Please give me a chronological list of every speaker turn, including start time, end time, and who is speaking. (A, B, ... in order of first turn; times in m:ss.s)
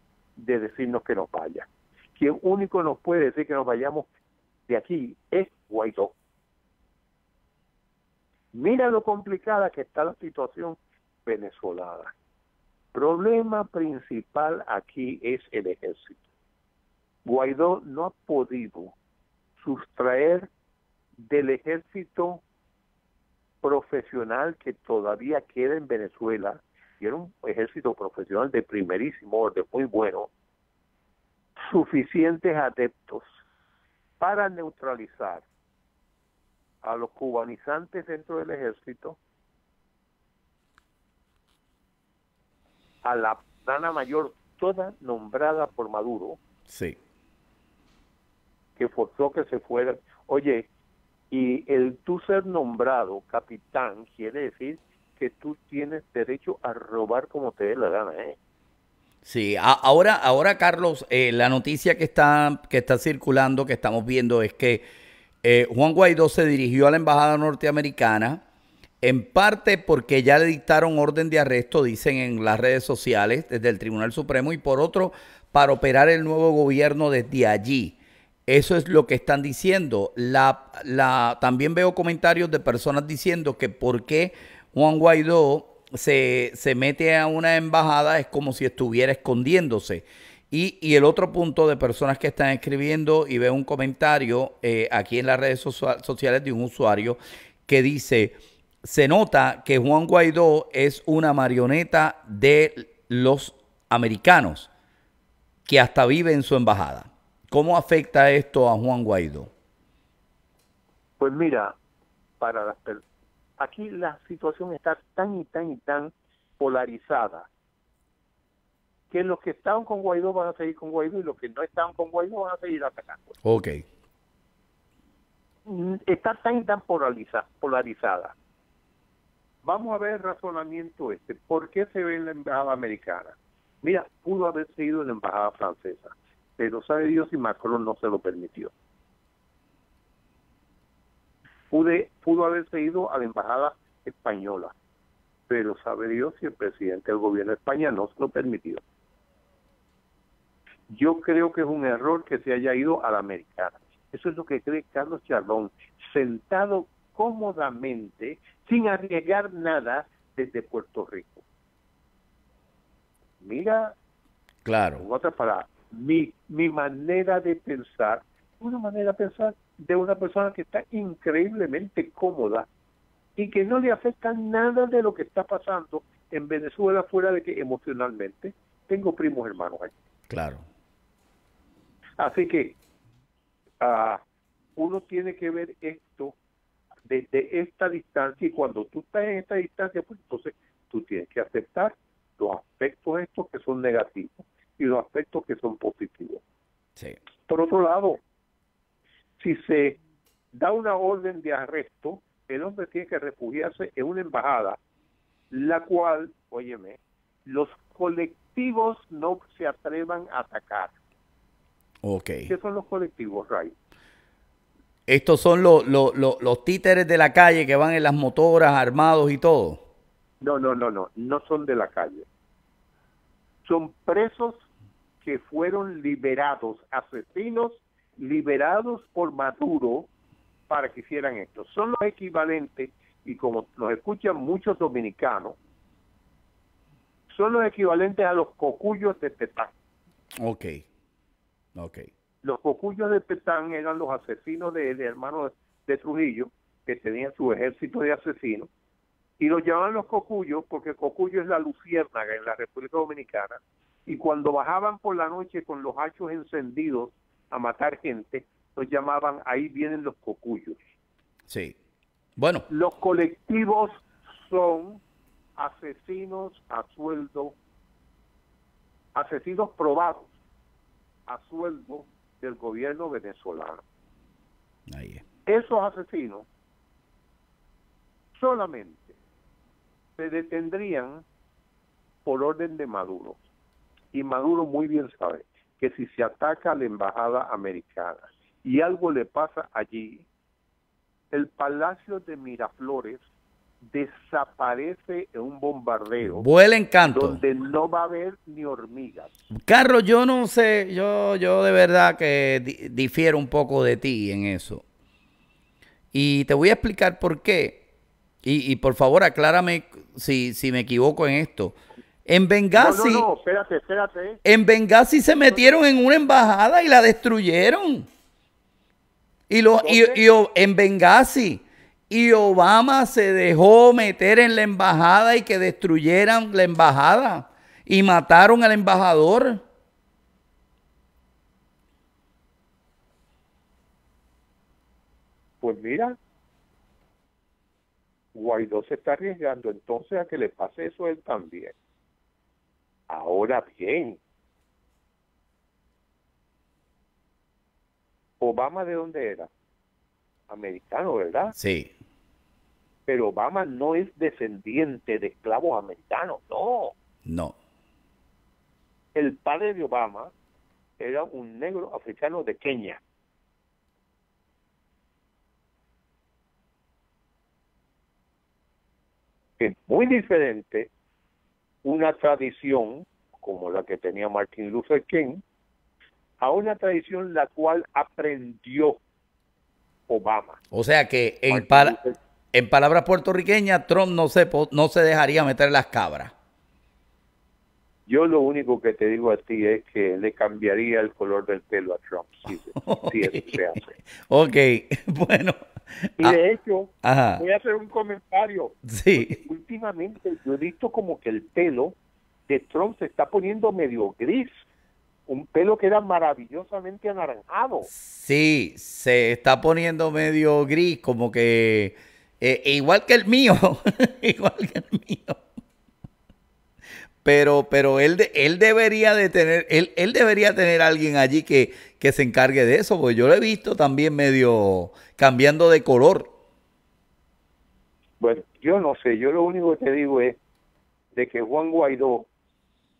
0:00.4-0:04.1 A
0:04.7-0:06.1 A
0:08.5-0:12.1 A
0:12.9-0:16.2 A
0:17.2-0:19.0 A
0:19.6-0:20.5 A
0:21.2-0:22.4 A
0:23.6-0:30.3 A
0:31.6-0:33.3 A
0:34.2-0:35.4 A
0:36.8-0:39.2 A
0:43.0-0:46.4 A
0:46.7-0:47.0 B
0:48.8-0:50.7 A
0:51.3-0:58.4 A
0:59.2-1:04.8 B
1:05.4-1:08.4 B
1:09.0-1:44.7 B
1:45.6-1:49.5 B
1:51.2-1:51.7 A
1:52.4-1:53.0 A
1:53.6-1:57.5 A
1:59.1-2:03.4 A
2:03.4-2:03.8 B
2:05.6-2:08.3 A
2:09.6-2:18.7 A
2:21.7-2:24.7 A
2:25.5-2:28.8 A
2:30.9-2:41.4 A
2:43.4-2:43.9 A
2:44.6-2:45.0 B
2:45.0-2:52.7 A
2:53.4-2:59.9 A
3:00.3-3:00.6 B
3:02.2-3:02.8 A
3:03.8-3:04.2 A
3:04.8-3:06.3 A
3:07.1-3:16.4 A
3:17.5-3:18.2 A
3:19.4-3:20.0 A
3:20.5-3:24.8 A
3:25.5-3:30.9 A
3:32.0-3:32.5 B
3:32.5-3:33.7 A
3:35.1-3:39.8 B
3:40.4-3:42.2 A
3:43.6-3:44.6 A
3:45.2-3:50.1 A
3:50.7-3:55.6 A
3:57.3-3:59.7 A
4:00.4-4:00.8 B
4:01.8-4:02.1 B
4:02.4-4:08.7 A
4:09.4-4:20.8 A
4:21.5-4:21.8 B
4:22.4-4:22.7 B
4:22.7-4:25.0 A
4:25.6-4:27.6 A
4:29.1-4:30.3 A
4:31.3-4:33.8 A
4:34.9-4:35.2 B
4:35.5-4:36.5 A
4:38.4-4:39.1 A
4:40.2-4:41.2 A
4:42.2-4:43.4 A
4:44.1-4:50.2 A
4:51.3-4:53.2 A
4:53.9-4:56.5 A
4:56.2-4:57.4 B
4:57.0-4:59.3 A
4:59.5-5:04.8 B
5:06.1-5:07.8 B
5:08.4-5:11.8 B
5:12.3-5:13.2 B
5:12.8-5:14.4 A
5:14.4-5:18.0 B
5:19.5-5:29.6 B
5:19.8-5:20.2 A
5:35.6-5:36.2 A
5:38.3-5:41.7 A
5:43.1-5:44.2 A
5:48.4-5:49.5 A
5:50.5-5:51.5 A
5:51.5-5:51.9 B
5:53.1-5:56.9 A
5:57.2-5:57.5 B
5:59.1-6:00.3 A
6:01.0-6:03.0 A
6:09.6-6:10.9 A
6:11.8-6:15.4 A
6:16.4-6:19.0 A
6:20.1-6:20.6 A
6:20.7-6:22.0 B
6:21.5-6:22.1 A
6:22.5-6:26.3 B
6:28.1-6:33.9 A
6:32.8-6:33.6 B
6:34.3-6:36.4 B
6:36.2-6:42.0 A
6:37.0-6:37.4 B
6:38.9-6:39.4 B
6:42.5-6:44.6 A
6:45.3-6:47.9 A
6:47.9-6:55.4 B
6:57.2-7:06.3 B
7:08.2-7:10.4 A
7:11.1-7:12.3 A